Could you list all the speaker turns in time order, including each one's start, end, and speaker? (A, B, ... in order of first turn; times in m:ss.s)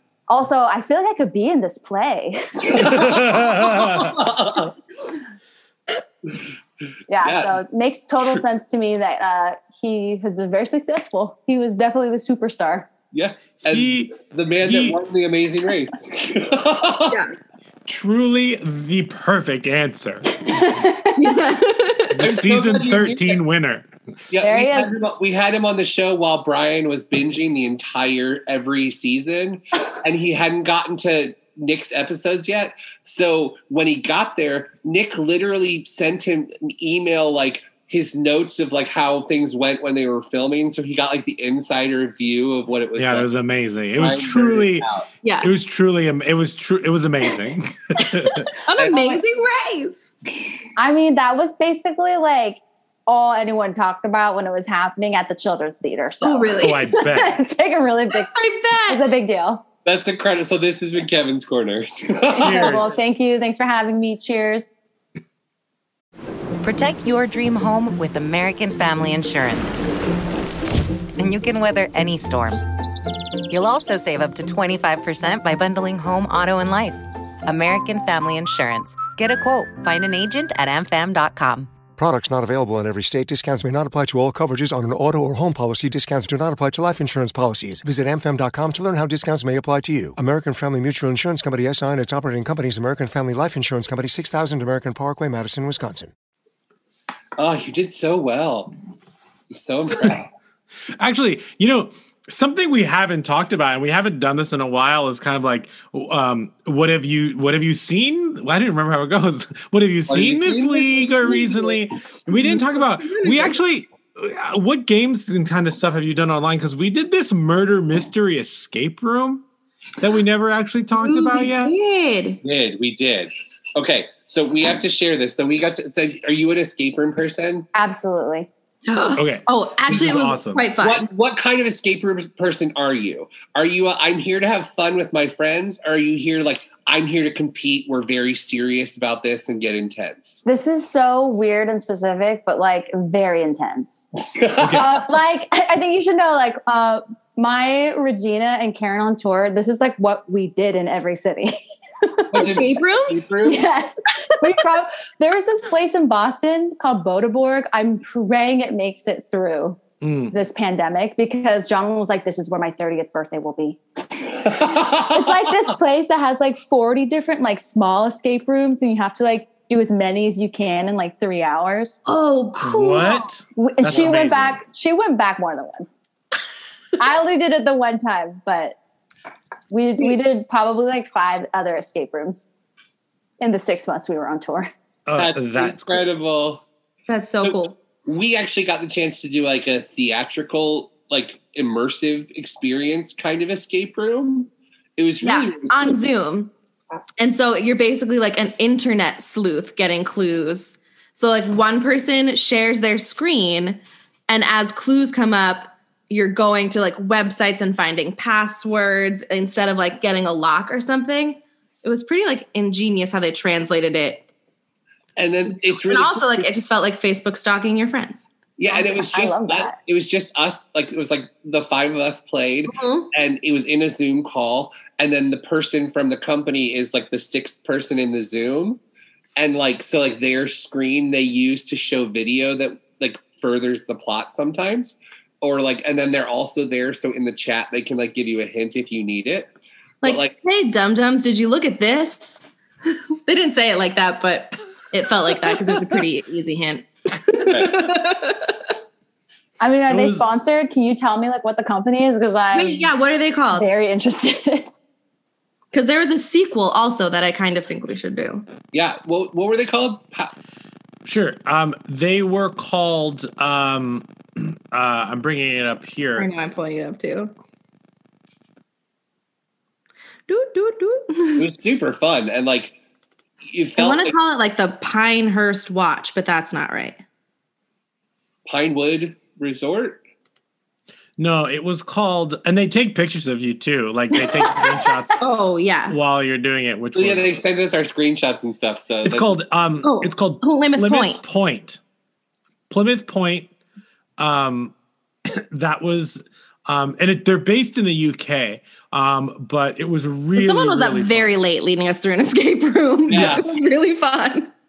0:00.3-0:02.8 A
0:02.7-0:04.7 B
0:03.0-0:04.1 C
0:07.1-0:12.9 A
0:07.2-0:07.6 B
0:13.1-0:17.2 B
0:13.7-0:15.0 C
0:17.8-0:20.5 C
0:20.4-0:21.2 A
0:21.2-0:22.2 D
0:22.2-0:23.9 C
0:22.2-0:23.4 B
0:24.3-0:43.3 B
0:24.4-0:24.9 A
0:43.0-0:44.9 C
0:44.0-0:45.1 B
0:45.2-0:45.5 D
0:45.4-0:48.5 C
0:48.6-0:50.1 D
0:48.9-0:49.2 A
0:50.8-0:58.3 A
0:56.2-0:56.8 D
0:56.6-0:57.4 C
0:58.2-0:59.1 D
0:58.9-0:59.6 A
0:59.8-1:02.9 B
1:02.3-1:04.6 A
1:02.4-1:02.9 C
1:06.6-1:09.8 E
1:11.2-1:12.6 E
1:13.5-1:21.7 E
1:22.0-1:36.1 F
1:37.4-1:38.7 B
1:39.5-1:40.3 B
1:41.0-1:59.4 C
1:50.1-1:51.5 B
1:52.3-1:53.6 D
2:00.0-2:01.7 C
2:01.0-2:02.4 D
2:02.4-2:07.7 B
2:07.7-2:08.5 A
2:08.9-2:11.1 D
2:09.2-2:10.7 C
2:10.8-2:20.4 B
2:20.4-2:24.0 A
2:24.4-2:24.8 B
2:24.6-2:24.9 C
2:24.7-2:32.5 A
2:32.3-2:33.6 B
2:32.3-2:33.3 D
2:33.4-2:39.8 A
2:40.0-2:40.4 C
2:40.3-2:52.0 A
2:44.5-2:45.3 B
2:52.0-2:53.3 D
2:52.6-2:54.6 C
2:53.6-2:55.9 A
2:57.0-2:58.8 A
2:59.7-3:02.5 A
3:03.4-3:04.7 A
3:05.0-3:06.0 C
3:05.2-3:06.6 B
3:07.1-3:07.8 D
3:07.4-3:16.0 B
3:15.2-3:16.5 D
3:17.2-3:34.3 D
3:35.2-3:36.5 B
3:35.5-3:38.3 D
3:38.6-3:48.8 B
3:38.7-3:39.8 A
3:42.7-3:43.1 D
3:49.4-3:59.5 B
4:00.0-4:08.5 D
4:00.0-4:00.3 B
4:07.5-4:07.8 B
4:09.6-4:12.9 A
4:09.9-4:10.2 C
4:12.5-4:13.7 D
4:13.5-4:14.7 A
4:15.7-4:18.5 D
4:18.7-4:20.3 B
4:21.0-4:26.3 C
4:26.2-4:27.3 D
4:30.3-4:31.5 D
4:31.4-4:32.8 B
4:33.5-4:34.1 B
4:33.8-4:37.0 D
4:38.4-4:40.0 B
4:41.2-4:45.2 C
4:45.2-4:46.0 D
4:45.9-4:47.4 C
4:46.9-4:49.4 B
4:49.0-4:51.8 C
4:49.8-4:51.2 D
4:52.7-4:53.5 C
4:54.2-4:54.7 C
4:55.3-5:01.3 C
5:00.3-5:04.5 D
5:03.1-5:03.5 B